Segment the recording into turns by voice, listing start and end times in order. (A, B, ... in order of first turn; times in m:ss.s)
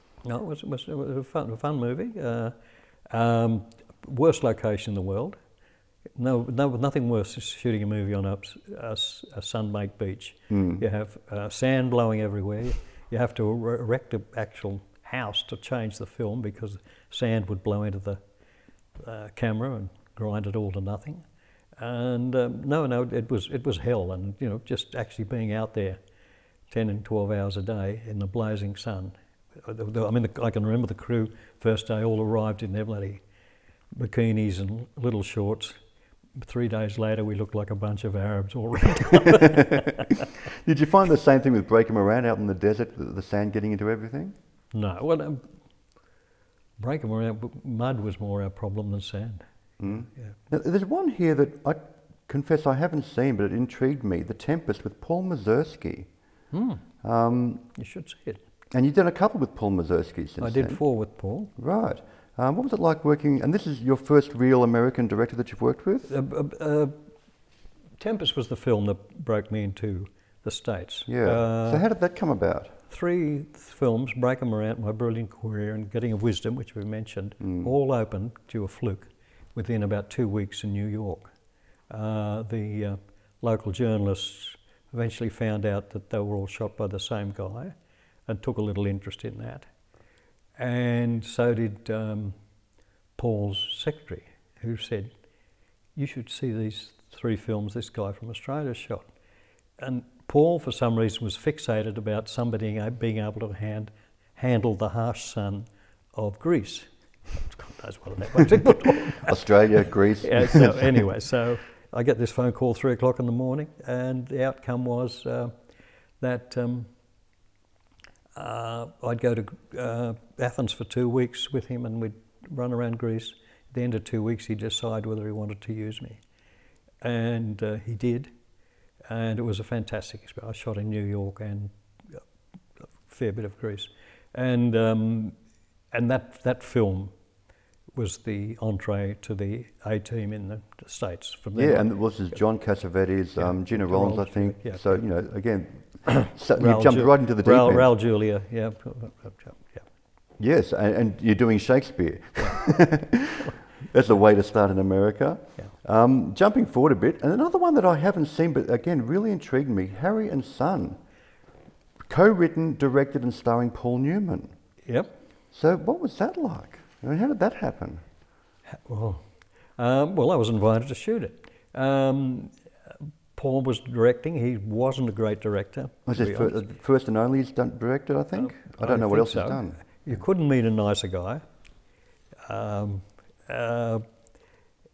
0:00.2-0:02.6 A
0:03.1-0:05.4 A
0:06.2-0:18.2 A
0:10.5-0:10.8 B
0:19.0-0:21.2 A
0:21.8-0:26.0 A
0:26.7-0:33.2 A
0:33.9-0:35.8 A
0:36.4-0:40.1 A
0:40.6-0:44.4 B
0:44.7-0:45.6 A
0:46.8-0:50.4 A
0:49.8-0:56.1 B
0:56.5-0:56.9 A
0:57.0-0:57.7 B
0:57.8-0:58.4 A
0:58.7-1:00.8 B
1:00.4-1:01.5 A
1:01.6-1:06.1 B
1:06.1-1:07.0 A
1:08.0-1:11.9 A
1:11.1-1:12.8 B
1:12.9-1:21.3 A
1:17.4-1:17.7 B
1:21.9-1:27.8 A
1:28.3-1:29.7 A
1:30.6-1:32.4 A
1:33.2-1:35.1 A
1:36.0-1:39.1 A
1:39.8-1:49.5 A
1:49.2-1:51.0 B
1:50.2-1:55.6 A
1:56.2-1:56.9 A
1:58.4-2:06.2 A
2:07.0-2:08.3 A
2:09.1-2:12.2 A
2:12.9-2:15.4 A
2:15.9-2:17.2 A
2:17.9-2:22.5 A
2:21.6-2:27.9 B
2:23.4-2:25.2 A
2:26.1-2:29.9 A
2:30.4-2:41.0 B
2:32.4-2:33.3 A
2:42.1-2:44.5 B
2:44.9-2:45.1 A
2:45.5-2:48.0 B
2:48.7-2:56.6 A
2:56.1-3:00.0 B
2:58.4-3:01.4 A
3:02.4-3:04.0 A